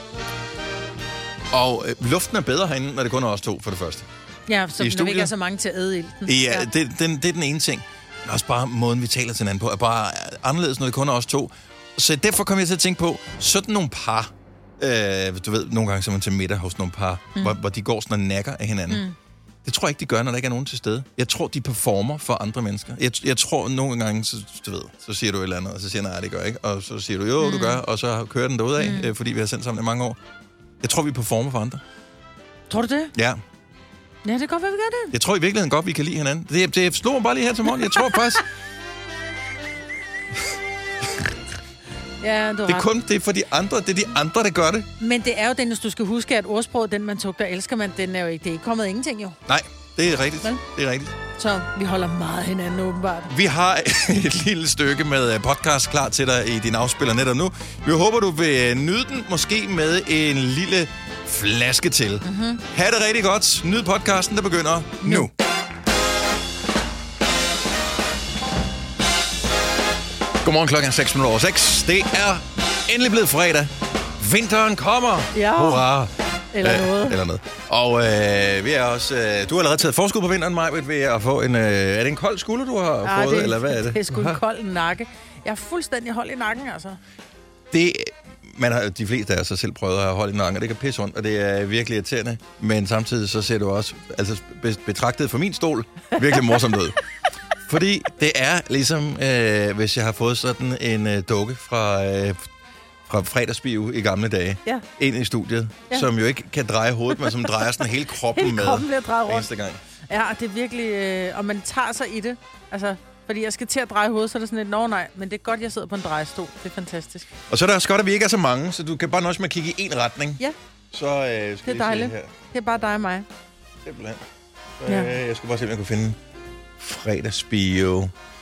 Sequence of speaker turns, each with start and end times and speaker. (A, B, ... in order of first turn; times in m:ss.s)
0:01.5-0:04.1 A
0:04.5-0:06.7 B
0:04.8-0:05.3 A
0:06.3-0:19.0 A
0:18.9-0:19.2 B
0:19.6-0:30.2 A
0:27.4-0:27.8 B
0:28.8-0:29.1 B
0:30.8-0:31.8 A
0:32.7-0:33.1 B
0:33.2-0:33.4 A
0:34.2-0:35.1 B
0:35.1-0:38.4 A
0:42.2-0:42.9 B
0:42.7-0:44.9 A
0:45.0-0:49.4 B
0:49.5-0:51.2 A
0:51.4-0:53.3 B
0:53.3-1:05.3 A
1:02.2-1:02.6 B
1:05.0-1:05.3 B
1:10.4-1:24.4 A
1:15.3-1:15.8 B
1:16.5-1:17.2 B
1:23.0-1:27.0 B
1:27.7-1:37.0 A
1:36.2-1:36.7 B
1:37.6-1:42.5 A
1:43.1-1:49.8 A
1:47.2-1:47.5 B
1:48.3-1:49.5 B
1:50.1-1:57.3 B
1:57.5-2:02.3 A
2:01.6-2:03.3 B
2:03.8-2:04.2 A
2:04.8-2:06.2 A
2:04.9-2:05.2 B
2:06.8-2:08.1 A